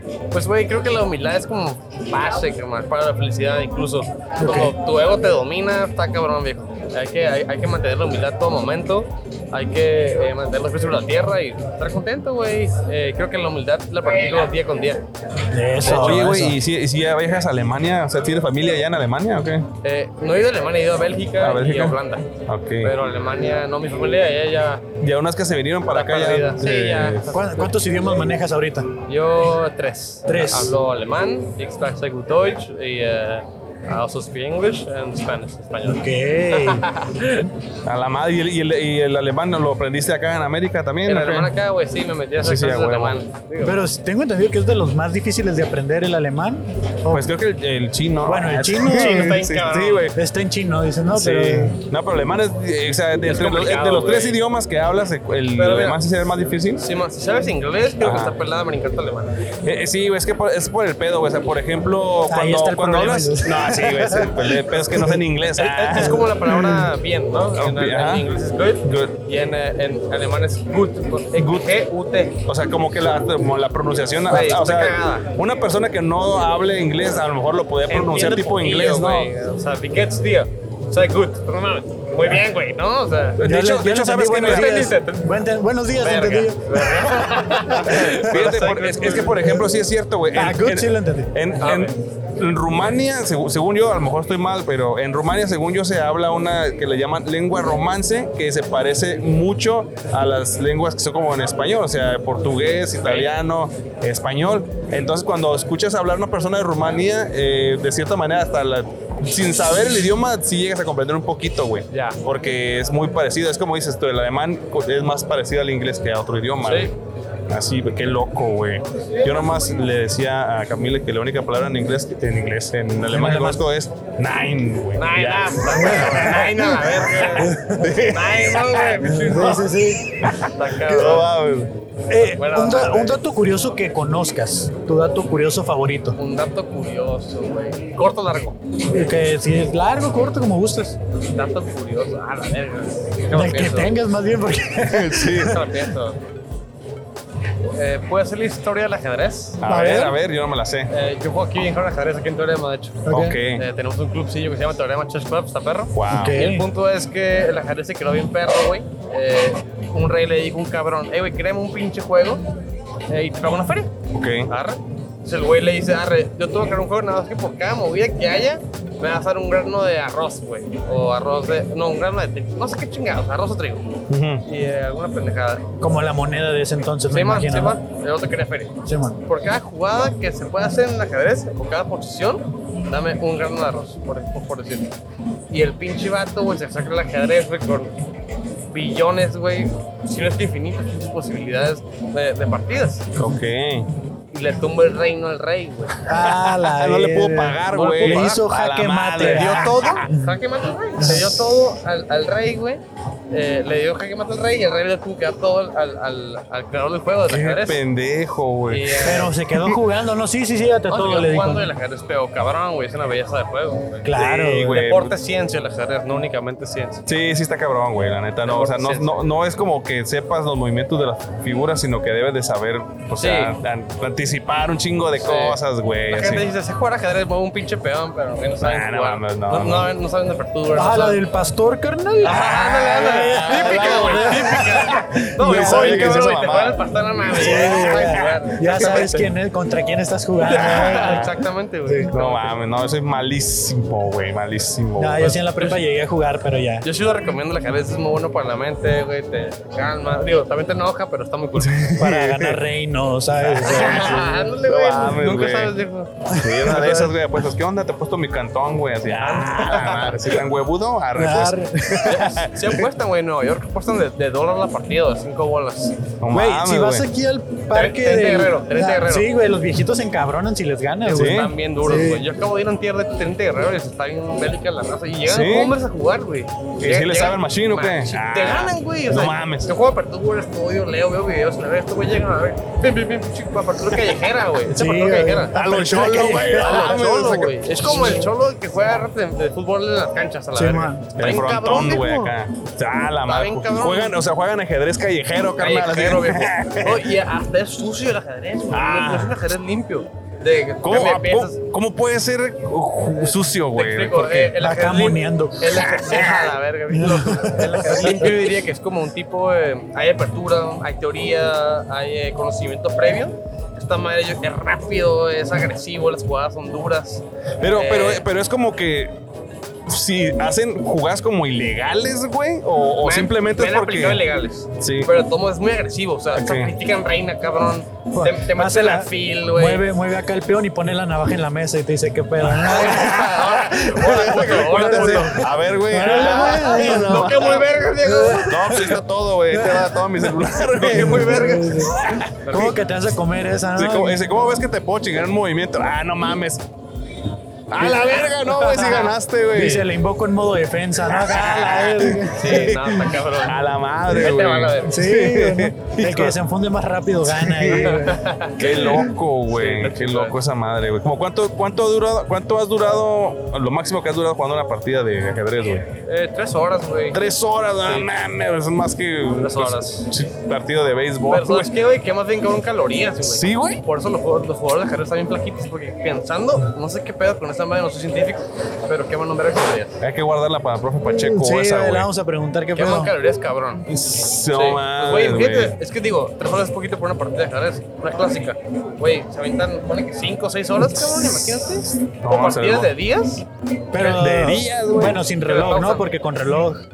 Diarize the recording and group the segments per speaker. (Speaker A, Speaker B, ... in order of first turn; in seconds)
Speaker A: 0.3-15.0, 19.8-22.3, 22.8-24.9, 25.9-27.7, 29.1-37.5, 41.1-43.8, 48.9-50.1, 53.2-54.4, 55.6-56.0, 56.8-59.4, 65.6-72.4, 74.3-75.3, 77.9-83.4, 84.4-85.3, 86.0-89.5, 91.6-91.9, 103.0-103.3, 111.9-112.2, 116.6-116.9, 125.0-129.7, 130.4-131.3, 132.2-133.2, 136.2-138.6, 141.3-144.0, 145.5-146.2, 147.7-149.6, 150.9-162.4, 163.1-163.9, 164.5-173.9, 174.5-175.7, 177.1-178.8, 179.3-184.9, 185.5-187.9, 188.7-193.1, 194.3-196.0, 197.7-198.4, 199.2-207.8, 208.7-209.3, 210.9-214.1, 214.7-217.0, 218.5-219.2, 223.2-223.5, 225.2-225.6, 226.1-231.2, 232.2-239.3, 240.5-242.5, 246.8-251.9, 253.6-256.1, 256.7-257.1, 259.2-260.3, 262.1-266.1, 267.7-269.3, 271.1-285.6, 286.3-292.3, 293.3-294.2, 295.6-301.6, 303.7-318.3, 323.0-329.9, 332.7-335.5, 336.0-338.9, 340.8-341.9, 342.4-342.7, 348.1-349.1, 352.4-355.0, 357.7-359.0, 359.5-360.4, 366.1-367.2, 369.4-370.1, 371.3-380.0, 382.8-383.9, 384.5-393.4, 395.4-396.1
Speaker B: 4.4-4.7, 15.5-16.6, 27.3-28.9, 30.3-30.8, 35.9-36.9, 43.6-47.3, 48.2-49.4, 50.1-51.8, 62.3-65.2, 66.0-66.6, 83.4-88.4, 90.3-91.3, 123.1-123.6, 127.4-128.0, 129.2-130.3, 132.1-136.2, 138.9-141.0, 143.3-145.6, 149.7-150.2, 153.1-153.4, 156.1-156.7, 175.8-177.8, 178.9-179.2, 196.1-200.3, 201.0-201.5, 209.0-211.7, 214.0-214.8, 230.7-236.1, 237.4-241.3, 245.0-246.8, 252.0-254.4, 256.3-256.8, 261.1-262.4, 266.3-272.2, 284.7-287.0, 290.6-291.1, 304.6-305.7, 306.9-308.3, 328.1-333.2, 334.2-337.3, 338.1-339.0, 339.5-340.2, 340.9-342.0, 342.5-344.2, 349.5-352.7, 354.8-358.2, 381.2-383.1, 393.9-396.8
Speaker C: 15.8-19.7, 21.4-22.9, 25.0-27.3, 37.8-41.5, 42.4-43.2, 47.1-50.2, 51.1-56.9, 58.0-58.4, 59.6-66.7, 67.6-68.3, 68.8-69.2, 71.4-71.7, 72.5-79.3, 83.4-84.9, 87.7-116.9, 117.5-126.9, 127.6-129.6, 130.2-131.7, 144.8-145.6, 149.6-150.9, 153.1-153.6, 155.9-156.4, 164.1-164.5, 174.1-174.4, 193.2-193.9, 196.2-200.1, 207.3-209.8, 214.2-215.1, 217.1-226.5, 228.6-229.9, 233.2-236.8, 237.4-239.1, 240.8-241.3, 242.1-245.4, 251.6-252.6, 253.4-255.8, 256.3-262.7, 266.2-267.1, 271.1-271.5, 275.3-275.8, 276.8-279.7, 285.5-288.2, 291.2-297.1, 298.7-299.4, 300.8-304.5, 305.9-306.3, 317.6-319.1, 319.9-324.2, 324.8-325.1, 326.4-326.7, 332.5-337.7, 338.5-342.7, 343.8-346.6, 347.7-349.9, 351.1-356.4, 357.3-365.9, 367.1-371.7, 373.2-373.8, 380.0-382.1, 383.9-385.8, 390.9-392.9, 394.0-395.2